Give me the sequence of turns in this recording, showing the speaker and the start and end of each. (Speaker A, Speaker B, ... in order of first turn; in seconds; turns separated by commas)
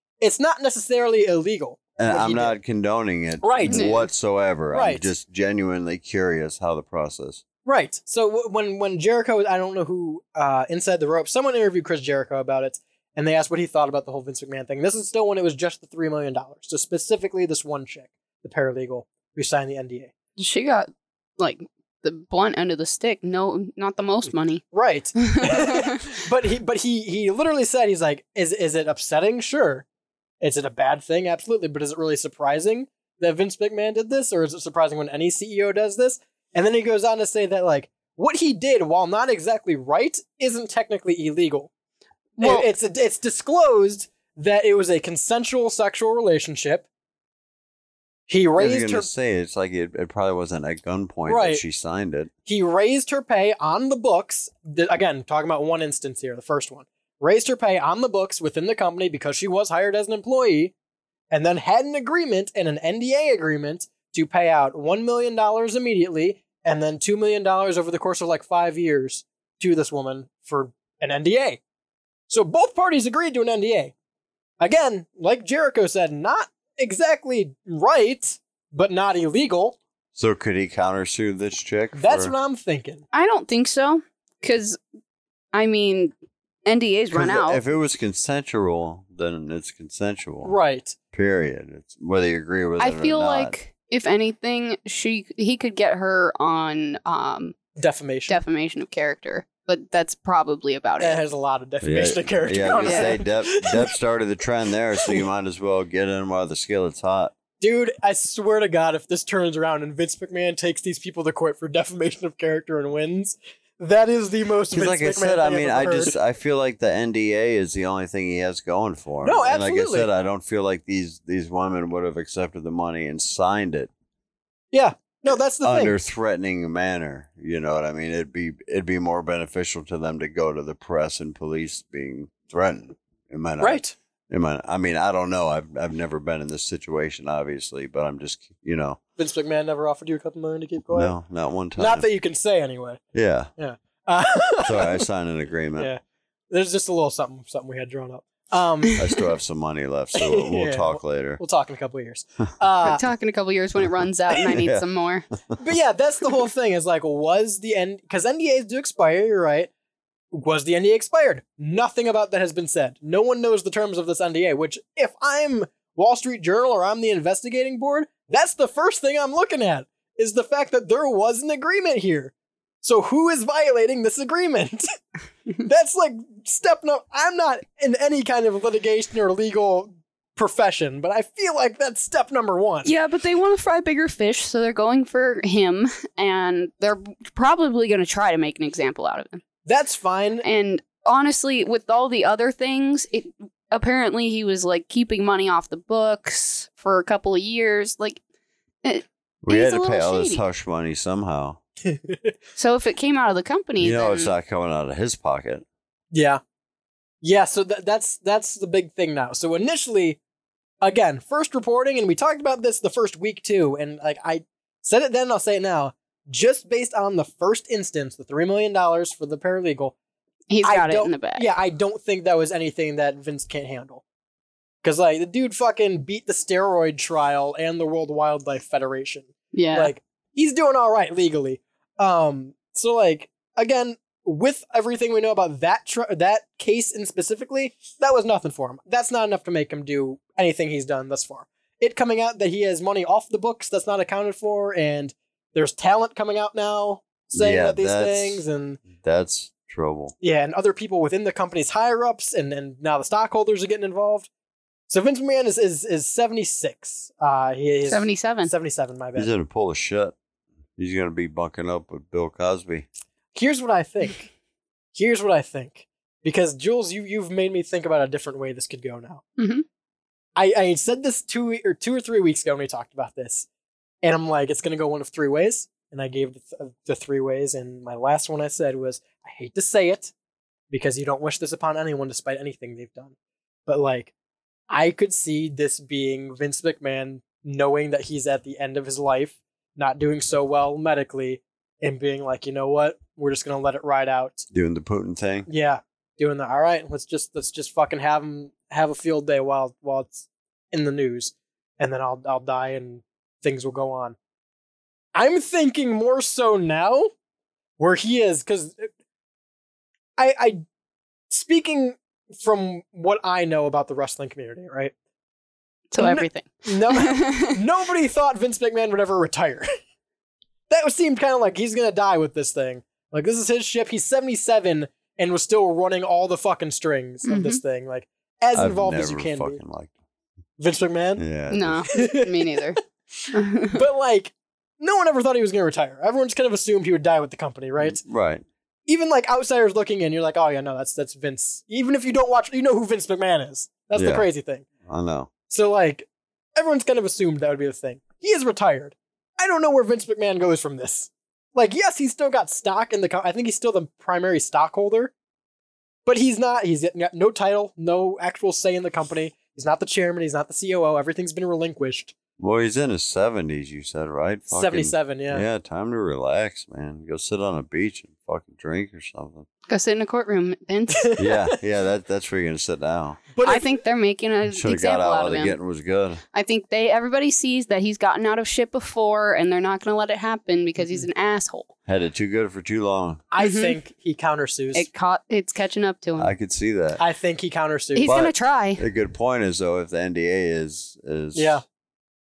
Speaker A: 0.2-2.5, Speaker B: 2.0-7.4, Speaker A: 3.4-4.0, Speaker C: 3.7-4.1, Speaker A: 4.7-5.1, Speaker A: 7.7-20.1, Speaker C: 20.4-24.6, Speaker A: 24.7-29.8, Speaker C: 25.3-26.0, Speaker A: 30.4-41.7, Speaker C: 42.4-42.7, Speaker A: 42.4-46.9, Speaker A: 48.3-49.1, Speaker B: 48.6-52.3, Speaker A: 51.3-51.6, Speaker A: 52.5-60.7, Speaker A: 61.3-71.6, Speaker A: 72.3-73.9, Speaker A: 74.6-79.8, Speaker B: 80.2-82.3, Speaker A: 81.9-83.0, Speaker C: 83.1-84.8, Speaker C: 85.5-86.1, Speaker C: 86.7-87.6, Speaker B: 87.1-90.5, Speaker A: 90.4-91.0, Speaker B: 91.1-93.5, Speaker C: 92.8-97.5, Speaker A: 97.8-98.4, Speaker C: 98.3-101.2, Speaker A: 101.0-103.9, Speaker B: 101.8-107.3, Speaker C: 102.8-103.1, Speaker A: 107.6-116.1, Speaker B: 114.7-123.9, Speaker A: 119.2-120.1, Speaker A: 124.7-125.9, Speaker B: 125.6-139.0, Speaker A: 133.6-133.9, Speaker A: 139.2-141.1, Speaker B: 140.9-142.1, Speaker A: 141.8-143.0, Speaker B: 143.1-143.5, Speaker A: 143.6-145.0, Speaker B: 144.6-145.9, Speaker A: 145.8-149.0, Speaker B: 149.0-151.4, Speaker A: 150.2-153.0, Speaker C: 152.8-155.2, Speaker B: 154.3-154.8, Speaker A: 155.6-159.7, Speaker A: 160.3-174.8, Speaker A: 175.6-182.9, Speaker C: 182.8-189.4, Speaker A: 189.7-190.4, Speaker C: 190.4-198.2, Speaker C: 198.8-200.4, Speaker B: 199.4-201.6, Speaker A: 201.8-202.3, Speaker C: 202.6-204.3, Speaker B: 203.8-205.6, Speaker A: 206.1-206.4, Speaker A: 207.2-210.2, Speaker A: 210.8-219.9, Speaker C: 220.5-221.5, Speaker A: 220.6-224.0, Speaker A: 224.8-248.8, Speaker C: 229.5-229.9, Speaker B: 247.3-250.1, Speaker A: 250.2-254.3, Speaker A: 254.9-259.3, Speaker C: 257.9-258.5, Speaker B: 259.1-260.1, Speaker B: 260.8-262.9, Speaker A: 263.3-264.3, Speaker A: 264.9-269.2, Speaker C: 269.4-269.6, Speaker A: 270.4-273.5, Speaker A: 274.0-280.1, Speaker A: 280.7-283.1, Speaker A: 283.7-284.1, Speaker A: 284.7-294.5, Speaker B: 294.5-295.5, Speaker A: 295.5-304.1, Speaker A: 305.1-307.1, Speaker A: 307.8-308.9, Speaker A: 310.2-310.6, Speaker A: 311.3-314.9, Speaker C: 315.9-317.5, Speaker A: 316.0-319.7, Speaker A: 320.7-329.6, Speaker C: 327.2-327.6, Speaker B: 328.5-329.9, Speaker A: 330.6-331.2, Speaker B: 331.2-331.9, Speaker C: 331.5-332.8, Speaker A: 331.9-332.6, Speaker A: 333.2-338.0, Speaker C: 333.3-333.8, Speaker B: 337.8-338.4, Speaker A: 338.9-344.6, Speaker B: 343.9-344.3, Speaker B: 344.9-345.3, Speaker A: 345.5-355.1, Speaker A: 356.1-362.1, Speaker B: 362.4-369.5, Speaker A: 364.5-365.4, Speaker C: 369.7-371.1, Speaker A: 370.9-371.5, Speaker B: 371.2-373.2, Speaker A: 373.3-373.8, Speaker C: 373.4-375.6, Speaker B: 374.5-376.2, Speaker C: 376.3-381.7, Speaker A: 380.8-381.1, Speaker B: 381.9-383.2, Speaker A: 383.3-384.9, Speaker C: 383.4-383.8, Speaker C: 384.7-386.3, Speaker B: 386.2-387.0, Speaker A: 387.0-388.3, Speaker C: 387.9-388.8, Speaker B: 388.0-391.6, Speaker A: 391.3-391.6